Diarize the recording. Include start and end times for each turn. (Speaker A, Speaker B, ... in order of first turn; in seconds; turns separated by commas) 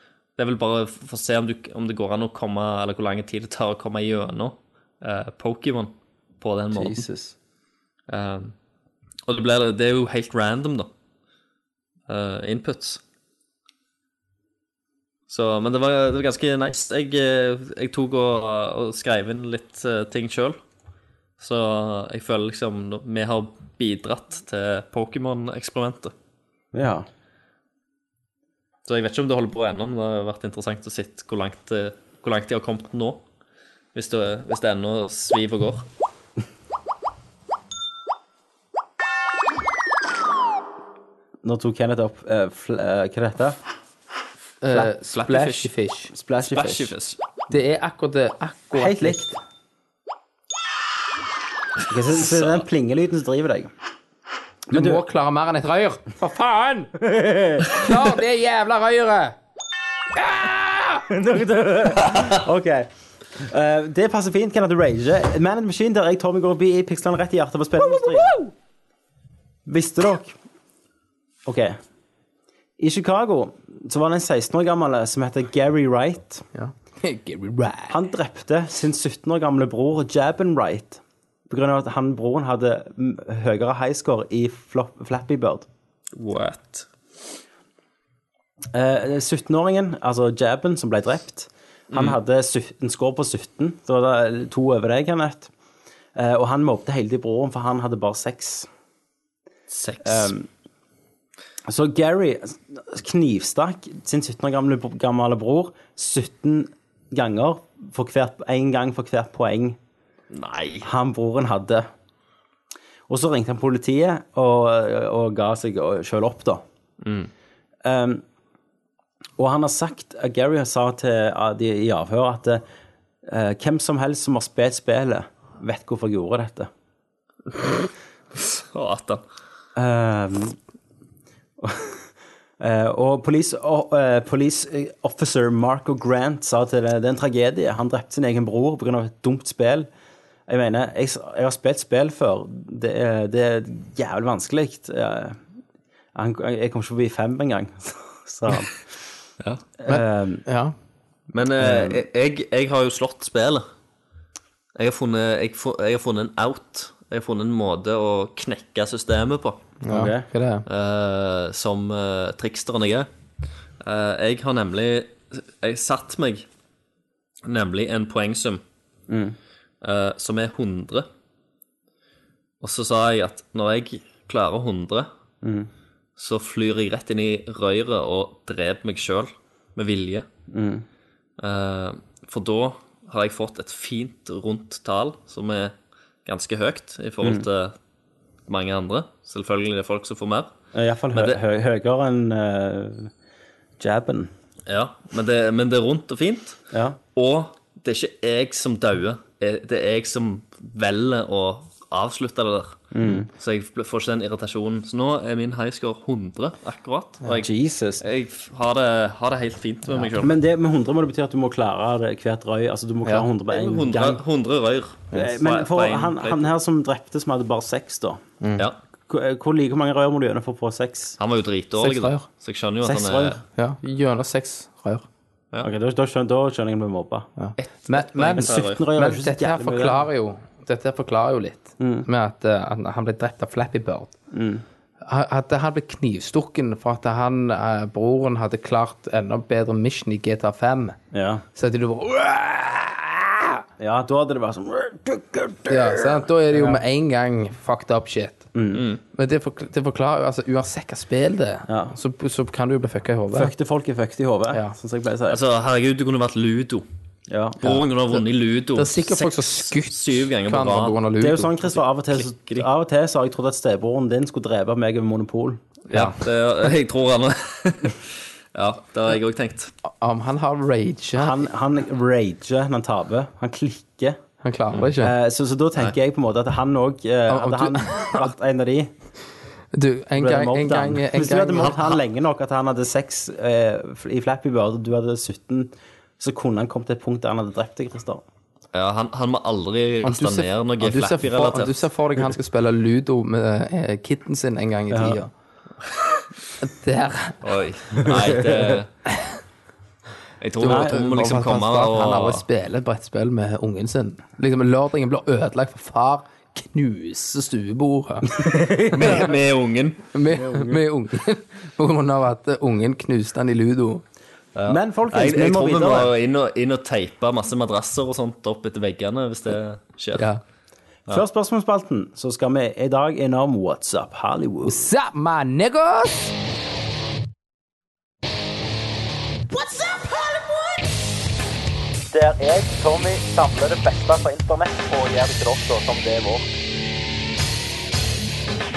Speaker A: 0.4-7.0, Speaker B: 6.7-7.3, Speaker A: 8.1-8.5, Speaker A: 9.2-10.9, Speaker A: 12.1-13.0, Speaker A: 15.3-20.6, Speaker A: 21.4-26.1, Speaker B: 26.7-27.1, Speaker A: 28.9-33.2, Speaker A: 33.9-35.9, Speaker B: 41.4-43.6, Speaker C: 44.6-46.1, Speaker A: 44.7-45.7, Speaker B: 46.1-46.9, Speaker A: 46.4-47.2, Speaker C: 47.5-49.2, Speaker B: 48.7-49.4, Speaker B: 51.9-53.7, Speaker A: 52.2-52.6, Speaker B: 54.7-55.0, Speaker C: 54.7-56.9, Speaker B: 57.0-57.8, Speaker C: 57.6-59.4, Speaker C: 60.1-61.0, Speaker B: 61.1-68.3, Speaker C: 67.9-68.5, Speaker B: 69.7-70.4, Speaker B: 71.4-71.8, Speaker B: 72.8-76.5, Speaker C: 76.5-78.0, Speaker B: 77.9-85.7, Speaker A: 86.1-86.9, Speaker B: 88.7-95.5, Speaker A: 91.9-92.2, Speaker B: 96.2-98.7, Speaker A: 99.7-100.3, Speaker B: 100.0-100.5, Speaker B: 101.7-109.8, Speaker A: 110.3-110.9, Speaker B: 110.8-111.9, Speaker B: 113.1-116.6, Speaker A: 117.0-117.3, Speaker B: 117.8-118.2, Speaker B: 119.4-122.6, Speaker B: 123.2-126.7, Speaker A: 127.6-129.2, Speaker B: 129.8-130.6, Speaker B: 131.6-132.1, Speaker B: 132.6-139.9, Speaker B: 140.5-145.4, Speaker B: 146.1-148.8, Speaker B: 149.8-150.4, Speaker C: 149.9-150.7, Speaker A: 151.3-153.6, Speaker B: 151.6-152.0, Speaker A: 154.8-159.6, Speaker C: 159.8-160.6, Speaker B: 159.9-160.2, Speaker A: 160.7-163.1, Speaker A: 163.8-166.4, Speaker A: 167.4-168.6, Speaker B: 169.1-169.4, Speaker A: 169.8-171.1, Speaker A: 172.6-175.1, Speaker B: 175.4-175.7, Speaker A: 176.2-180.3, Speaker B: 180.5-180.8, Speaker A: 181.4-185.7, Speaker A: 186.2-187.7, Speaker A: 188.5-190.5, Speaker B: 190.7-193.1, Speaker A: 191.1-191.4, Speaker B: 193.8-194.3, Speaker A: 194.7-196.6, Speaker B: 196.7-197.0, Speaker A: 197.1-207.5, Speaker B: 202.9-203.3, Speaker B: 207.3-208.0, Speaker A: 208.0-210.3, Speaker B: 210.2-214.2, Speaker A: 213.5-216.5, Speaker B: 215.1-218.2, Speaker C: 218.4-218.7, Speaker B: 219.1-221.2, Speaker A: 221.2-223.4, Speaker C: 221.8-222.2, Speaker B: 222.8-223.4, Speaker C: 223.6-225.0, Speaker B: 225.6-227.3, Speaker C: 227.4-234.1, Speaker A: 227.6-228.8, Speaker B: 228.3-230.0, Speaker B: 231.8-232.1, Speaker B: 234.3-234.6, Speaker C: 235.0-241.0, Speaker B: 241.1-241.4, Speaker C: 241.5-243.6, Speaker B: 243.8-246.8, Speaker C: 245.7-248.5, Speaker B: 248.5-248.8, Speaker A: 248.7-249.0, Speaker C: 249.1-253.5, Speaker B: 251.7-251.9, Speaker B: 253.3-255.4, Speaker A: 255.3-256.9, Speaker B: 257.3-257.6, Speaker A: 257.6-261.0, Speaker C: 258.8-261.8, Speaker B: 261.2-265.6, Speaker A: 262.1-262.7, Speaker A: 265.9-269.7, Speaker C: 265.9-266.2, Speaker C: 269.9-271.4, Speaker B: 271.2-274.2, Speaker C: 274.4-275.1, Speaker B: 275.0-278.9, Speaker C: 277.3-278.3, Speaker C: 279.7-281.8, Speaker B: 280.2-288.2, Speaker A: 288.7-291.9, Speaker C: 290.0-295.3, Speaker B: 294.9-295.2, Speaker C: 296.6-297.4, Speaker A: 297.4-298.9, Speaker B: 298.0-298.8, Speaker A: 300.4-302.4, Speaker C: 300.6-308.4, Speaker B: 300.6-301.0, Speaker B: 308.3-309.3, Speaker A: 308.9-310.0, Speaker C: 310.1-314.0, Speaker B: 310.3-310.8, Speaker A: 314.6-320.3, Speaker B: 314.7-316.1, Speaker B: 321.1-324.8, Speaker C: 324.6-326.3, Speaker B: 332.1-336.5